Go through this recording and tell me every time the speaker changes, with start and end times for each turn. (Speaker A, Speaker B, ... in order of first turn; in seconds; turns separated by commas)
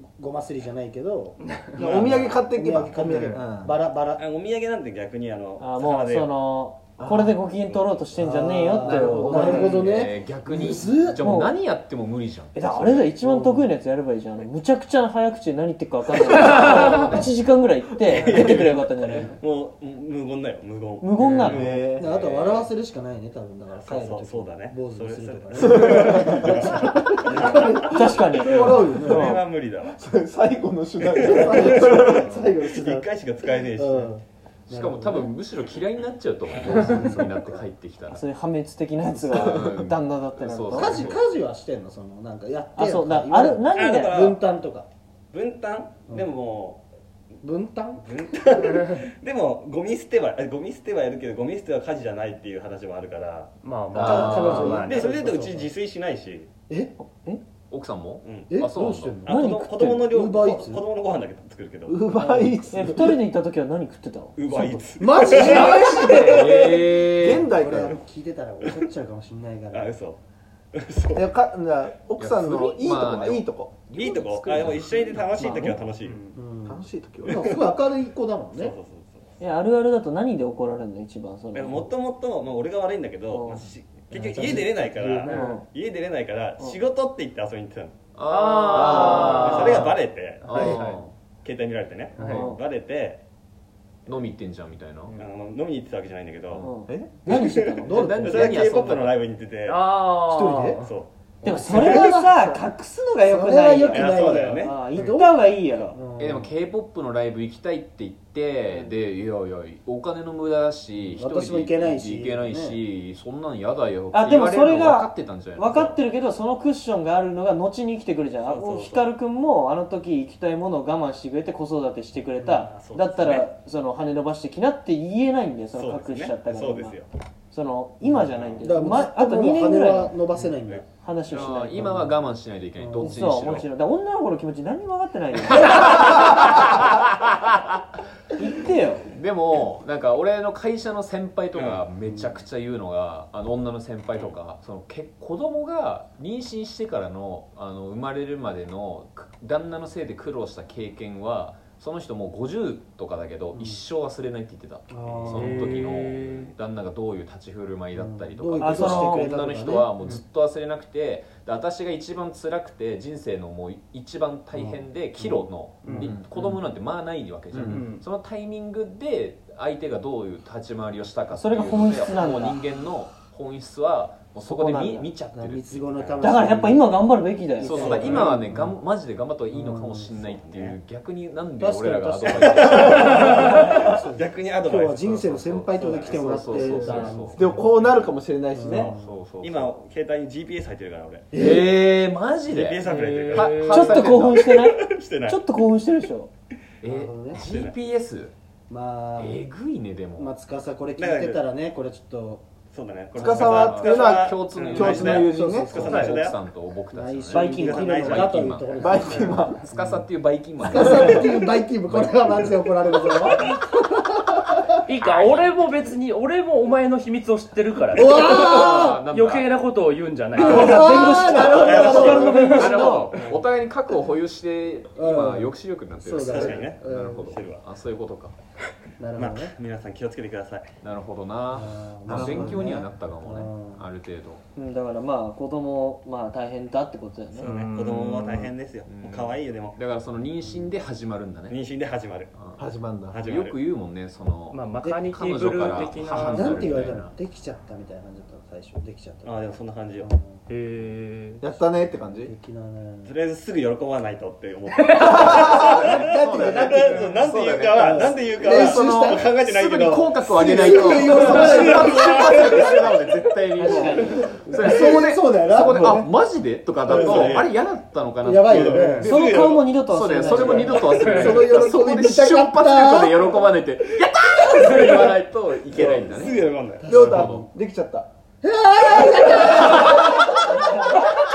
Speaker A: 0.2-1.4, Speaker B: 1.4-1.8, Speaker C: 1.8-3.8, Speaker D: 1.8-2.5, Speaker A: 2.2-4.2, Speaker D: 4.2-6.3, Speaker E: 5.6-9.7, Speaker C: 7.0-7.4, Speaker D: 7.6-8.0, Speaker A: 8.2-11.2, Speaker C: 8.8-9.8, Speaker B: 9.4-9.8, Speaker F: 9.7-12.9, Speaker E: 11.2-11.6, Speaker E: 12.5-19.4, Speaker A: 13.2-13.7, Speaker F: 16.7-17.2, Speaker D: 18.1-22.7, Speaker E: 21.0-21.7, Speaker C: 21.4-22.1, Speaker A: 22.0-29.4, Speaker D: 23.8-27.9, Speaker C: 25.6-26.5, Speaker E: 27.9-29.4, Speaker D: 28.4-30.0, Speaker C: 29.9-32.6, Speaker D: 31.0-34.1, Speaker A: 31.3-33.0, Speaker A: 33.7-35.3, Speaker F: 34.7-38.2, Speaker A: 36.6-37.6, Speaker E: 38.1-41.0, Speaker F: 39.3-41.2, Speaker A: 40.7-44.9, Speaker E: 42.8-44.2, Speaker D: 43.7-44.4, Speaker D: 45.3-46.8, Speaker A: 47.4-48.8, Speaker D: 48.0-53.5, Speaker B: 53.6-55.1, Speaker F: 53.9-54.9, Speaker A: 54.0-55.7, Speaker D: 54.8-56.5, Speaker A: 56.7-56.9, Speaker E: 57.0-57.4, Speaker F: 57.7-59.3, Speaker D: 58.2-58.6, Speaker A: 58.5-59.5, Speaker D: 59.2-62.1, Speaker E: 59.3-60.1, Speaker A: 60.1-60.8, Speaker C: 61.9-63.2, Speaker E: 62.2-64.4, Speaker D: 64.4-66.9, Speaker A: 65.0-66.7, Speaker F: 65.4-67.5, Speaker C: 67.0-68.0, Speaker A: 67.4-69.9, Speaker D: 68.6-68.9, Speaker D: 69.7-70.2, Speaker D: 70.7-71.3, Speaker C: 71.2-73.8, Speaker F: 72.2-75.8, Speaker D: 73.9-76.2, Speaker A: 75.4-75.8, Speaker B: 76.1-76.4, Speaker A: 76.3-78.8, Speaker C: 76.7-77.4, Speaker D: 77.2-77.8, Speaker D: 78.6-79.3, Speaker E: 79.4-81.9, Speaker D: 81.5-88.0, Speaker E: 83.3-83.7, Speaker A: 84.1-85.0, Speaker B: 84.9-85.6, Speaker E: 85.3-85.6, Speaker F: 88.2-89.8, Speaker B: 88.3-89.7, Speaker C: 88.7-89.7, Speaker D: 89.4-90.6, Speaker F: 90.4-91.1, Speaker B: 90.6-91.0, Speaker D: 91.4-93.2, Speaker B: 92.2-92.5, Speaker F: 92.2-92.5, Speaker E: 92.2-92.6, Speaker F: 94.1-95.2, Speaker D: 95.1-96.7, Speaker E: 96.6-98.2, Speaker C: 96.9-97.1, Speaker A: 97.3-98.6, Speaker D: 97.3-99.8, Speaker F: 97.9-99.1, Speaker B: 99.7-100.9, Speaker A: 100.3-100.9, Speaker D: 100.8-101.1, Speaker A: 101.4-102.6, Speaker E: 101.4-106.0, Speaker D: 101.7-102.2, Speaker A: 103.2-105.3, Speaker D: 103.9-105.1, Speaker A: 105.9-106.5, Speaker F: 106.2-115.8, Speaker A: 111.2-112.8, Speaker E: 114.1-127.0, Speaker D: 115.7-116.0, Speaker D: 118.4-119.1, Speaker D: 122.6-123.5, Speaker D: 125.7-127.1, Speaker E: 127.5-132.1, Speaker A: 128.0-130.8, Speaker D: 128.3-128.7, Speaker F: 131.3-133.7, Speaker A: 131.7-132.1, Speaker A: 132.8-133.4, Speaker E: 133.0-135.8, Speaker F: 135.5-137.5, Speaker E: 138.4-139.1, Speaker F: 139.1-176.1, Speaker D: 141.6-141.8, Speaker A: 142.0-142.3, Speaker A: 153.6-153.8, Speaker A: 154.9-155.7, Speaker B: 155.3-156.5, Speaker A: 157.9-160.2, Speaker E: 158.6-159.3, Speaker A: 164.5-166.1, Speaker B: 165.8-166.2, Speaker C: 165.9-166.3, Speaker C: 167.5-167.8, Speaker B: 167.7-168.0, Speaker E: 171.3-172.6, Speaker E: 174.4-175.1, Speaker A: 175.3-177.1, Speaker E: 176.2-178.1, Speaker F: 177.6-183.6, Speaker A: 177.6-178.8, Speaker D: 177.7-178.4, Speaker A: 179.5-180.2, Speaker D: 180.1-180.8, Speaker A: 181.6-187.8, Speaker D: 182.2-186.4, Speaker F: 185.2-187.5, Speaker C: 187.3-188.9, Speaker A: 188.5-189.1, Speaker D: 188.7-191.3, Speaker F: 189.0-189.8, Speaker F: 191.3-194.5, Speaker A: 191.3-191.8, Speaker D: 192.5-195.4, Speaker B: 192.8-194.1, Speaker E: 193.7-196.3, Speaker F: 196.8-198.3, Speaker A: 196.8-197.5, Speaker D: 197.4-197.8, Speaker A: 198.7-199.5, Speaker F: 199.2-200.3, Speaker A: 200.2-202.5, Speaker D: 201.0-201.5, Speaker D: 202.7-206.4, Speaker C: 203.2-205.9, Speaker F: 203.6-207.5, Speaker A: 204.7-206.3, Speaker A: 206.9-210.1, Speaker E: 207.3-208.4, Speaker D: 207.5-208.2, Speaker F: 208.1-209.0, Speaker C: 208.8-209.6, Speaker F: 209.6-213.0, Speaker A: 210.6-213.5, Speaker C: 210.7-211.2, Speaker B: 214.9-222.4, Speaker F: 214.9-215.6, Speaker A: 217.9-219.0, Speaker F: 218.3-219.6, Speaker A: 220.3-223.0, Speaker E: 220.4-223.1, Speaker D: 221.4-223.4, Speaker F: 222.4-228.3, Speaker A: 224.9-227.4, Speaker D: 226.2-227.7, Speaker A: 229.0-229.6, Speaker D: 229.2-230.7, Speaker F: 230.8-234.4, Speaker A: 231.5-233.9, Speaker C: 232.1-232.9, Speaker E: 234.6-237.5, Speaker D: 237.4-239.8, Speaker B: 237.4-238.5, Speaker F: 238.9-241.6, Speaker A: 240.4-240.8, Speaker D: 241.5-242.6, Speaker F: 242.4-242.6, Speaker C: 242.6-243.2, Speaker D: 243.1-243.6, Speaker F: 243.2-247.1, Speaker B: 244.5-247.1, Speaker A: 244.8-250.5, Speaker D: 249.2-250.1, Speaker B: 250.5-251.4, Speaker C: 251.4-252.3, Speaker A: 252.1-253.2, Speaker D: 253.1-263.1, Speaker B: 254.7-255.6, Speaker C: 255.0-256.9, Speaker F: 255.3-269.2, Speaker A: 256.2-259.3, Speaker A: 260.3-262.2, Speaker B: 261.3-261.6, Speaker E: 263.6-264.4, Speaker A: 263.7-266.1, Speaker D: 266.8-267.5, Speaker A: 266.9-267.2, Speaker A: 268.2-269.1, Speaker D: 268.5-269.6, Speaker E: 269.0-271.1, Speaker F: 269.9-276.5, Speaker A: 270.5-273.4, Speaker B: 270.9-271.4, Speaker D: 274.8-275.1, Speaker D: 275.7-277.0, Speaker A: 276.8-277.5, Speaker C: 276.8-278.1, Speaker F: 277.0-277.5, Speaker A: 278.4-280.4, Speaker F: 279.5-280.2, Speaker E: 280.5-281.0